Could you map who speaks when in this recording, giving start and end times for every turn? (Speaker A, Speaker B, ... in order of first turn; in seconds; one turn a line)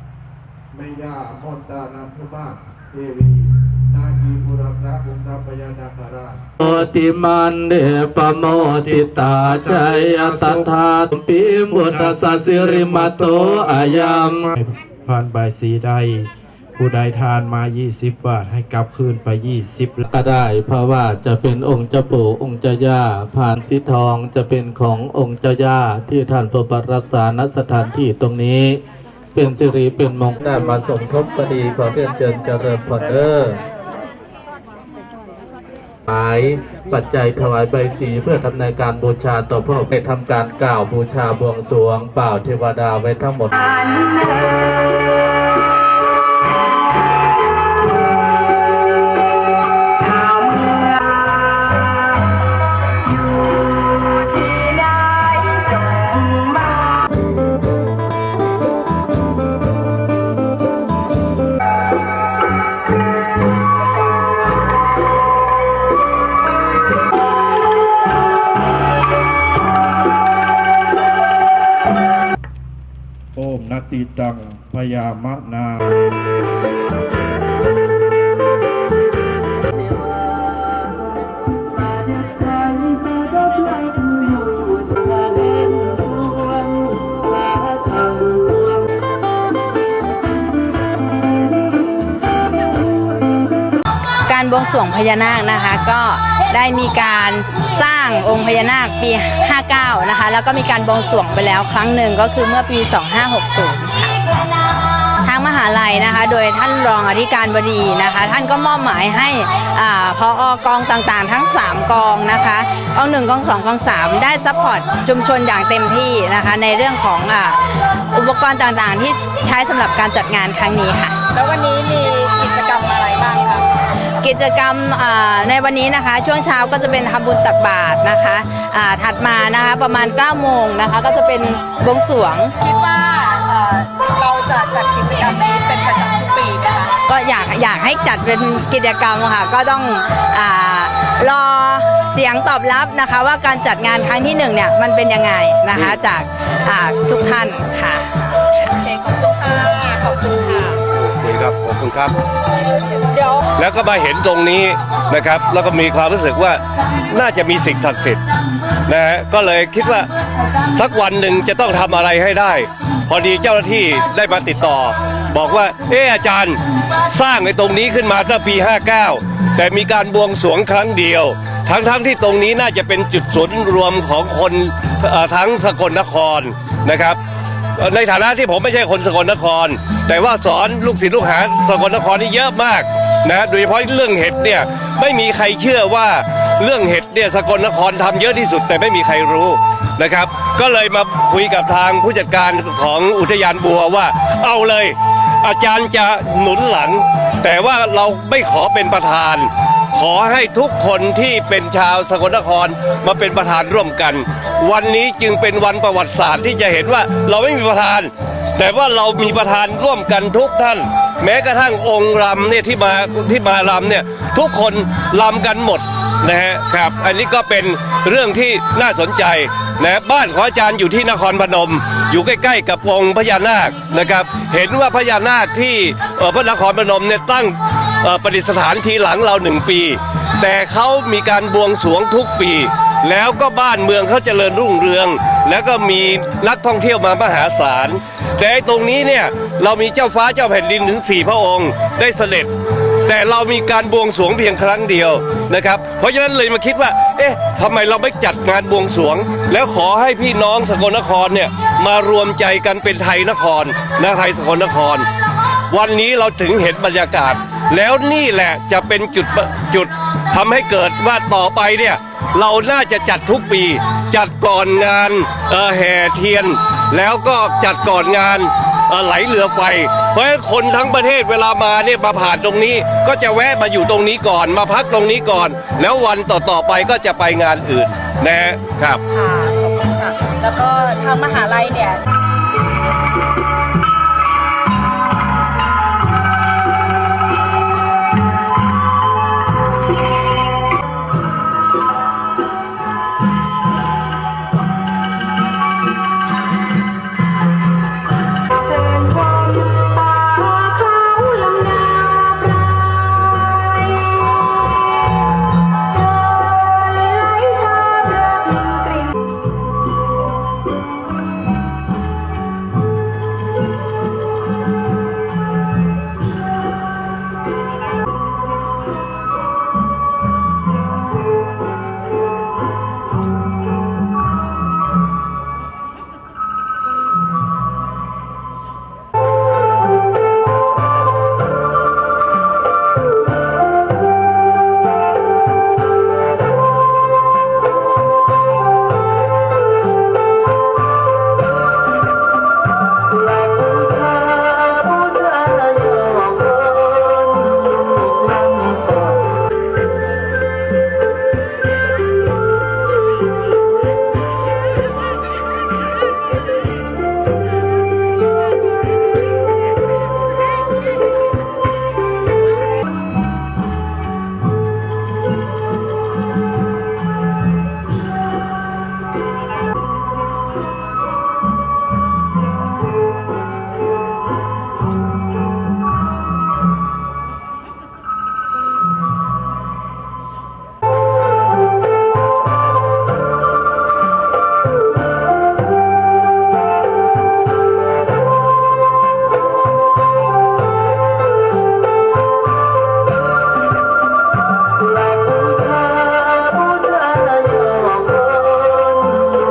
Speaker A: 0.7-6.5
Speaker B: 6.6-14.5
Speaker A: 8.8-10.7
Speaker A: 11.7-20.0
Speaker B: 20.1-28.8
Speaker B: 29.3-33.6
Speaker B: 36.1-44.2
Speaker A: 73.3-75.8
Speaker B: 81.9-87.0
Speaker B: 87.6-88.5
Speaker C: 94.3-104.1
Speaker C: 105.2-117.6
Speaker C: 118.1-121.1
Speaker D: 121.3-123.7
Speaker C: 124.2-132.5
Speaker D: 132.6-136.9
Speaker C: 137.1-148.8
Speaker D: 148.8-150.8
Speaker E: 150.9-152.2
Speaker D: 152.9-153.4
Speaker E: 153.5-158.2
Speaker E: 158.8-160.1
Speaker E: 160.6-177.2
Speaker E: 177.8-242.5
Speaker E: 243.1-255.1
Speaker E: 255.7-279.0
Speaker D: 279.1-282.0
Speaker B: 343.9-347.5
Speaker B: 348.1-349.1
Speaker B: 395.8-399.3